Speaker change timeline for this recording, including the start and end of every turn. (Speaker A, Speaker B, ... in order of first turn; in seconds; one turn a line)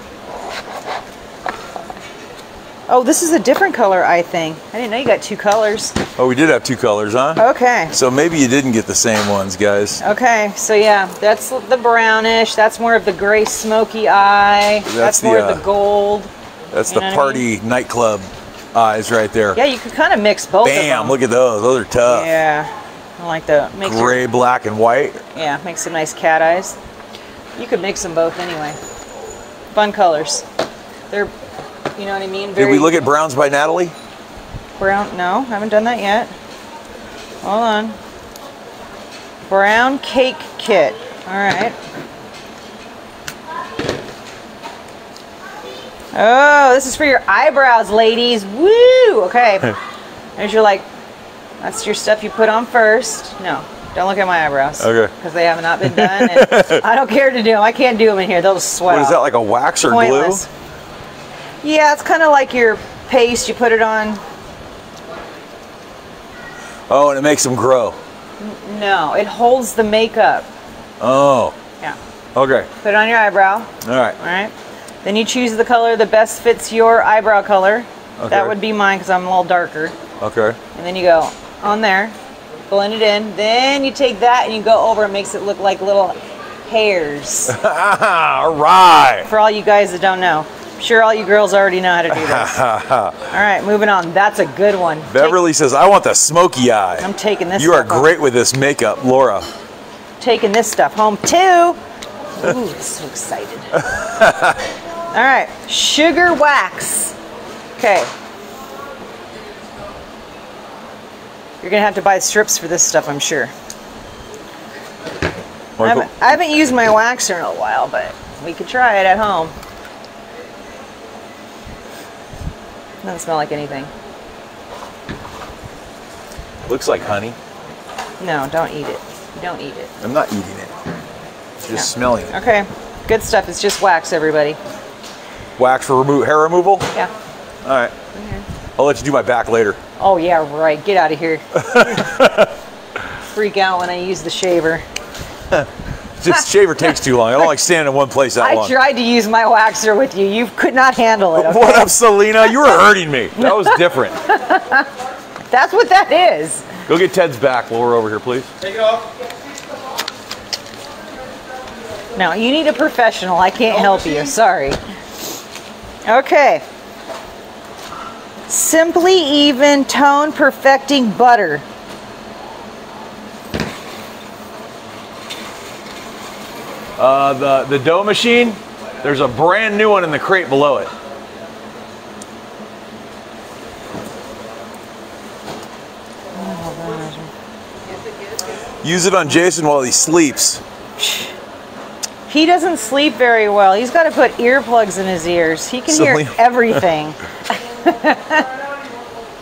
Speaker A: 2.9-6.0
Speaker B: 6.2-10.0
Speaker A: 7.4-7.9
Speaker A: 10.0-16.3
Speaker B: 14.9-15.6
Speaker B: 16.7-19.6
Speaker A: 16.9-17.4
Speaker A: 19.6-21.2
Speaker B: 20.6-22.3
Speaker A: 22.1-24.2
Speaker B: 23.8-25.2
Speaker A: 25.3-26.8
Speaker A: 27.6-28.8
Speaker A: 29.7-30.5
Speaker A: 32.0-32.9
Speaker B: 32.6-33.9
Speaker A: 34.8-36.3
Speaker A: 37.4-38.0
Speaker A: 39.5-41.8
Speaker A: 46.1-49.8
Speaker A: 50.4-50.9
Speaker A: 51.6-59.2
Speaker B: 54.8-55.1
Speaker B: 55.8-56.8
Speaker B: 58.9-60.4
Speaker A: 59.8-60.5
Speaker A: 61.6-64.2
Speaker B: 66.9-68.0
Speaker A: 68.4-70.5
Speaker B: 71.0-71.5
Speaker B: 72.3-72.7
Speaker A: 72.8-74.5
Speaker B: 73.8-74.2
Speaker A: 75.0-80.0
Speaker B: 78.2-78.5
Speaker B: 80.2-80.6
Speaker A: 80.8-82.2
Speaker A: 82.7-87.6
Speaker B: 87.5-89.3
Speaker A: 89.3-92.5
Speaker B: 92.1-93.2
Speaker A: 93.3-95.4
Speaker B: 95.1-99.5
Speaker A: 97.0-98.1
Speaker A: 100.2-101.8
Speaker A: 102.4-103.8
Speaker B: 103.8-104.6
Speaker A: 105.1-107.2
Speaker A: 107.8-108.1
Speaker A: 111.6-113.5
Speaker B: 115.8-116.4
Speaker A: 115.8-119.5
Speaker A: 123.0-123.9
Speaker B: 126.7-127.4
Speaker A: 128.2-129.9
Speaker B: 130.0-130.7
Speaker B: 131.6-132.3
Speaker A: 131.7-134.6
Speaker B: 135.6-136.9
Speaker B: 137.6-137.9
Speaker A: 138.1-138.4
Speaker B: 138.8-139.8
Speaker A: 140.0-142.0
Speaker B: 141.6-142.5
Speaker A: 143.3-144.8
Speaker B: 146.2-148.8
Speaker A: 148.4-151.9
Speaker B: 151.3-154.2
Speaker A: 152.5-152.8
Speaker A: 153.4-154.9
Speaker A: 155.5-156.7
Speaker B: 156.9-158.5
Speaker A: 162.2-164.8
Speaker A: 166.1-166.6
Speaker A: 168.5-171.6
Speaker B: 177.0-180.9
Speaker A: 186.3-187.3
Speaker B: 188.8-190.6
Speaker A: 191.0-191.3
Speaker A: 192.3-198.5
Speaker B: 195.9-196.8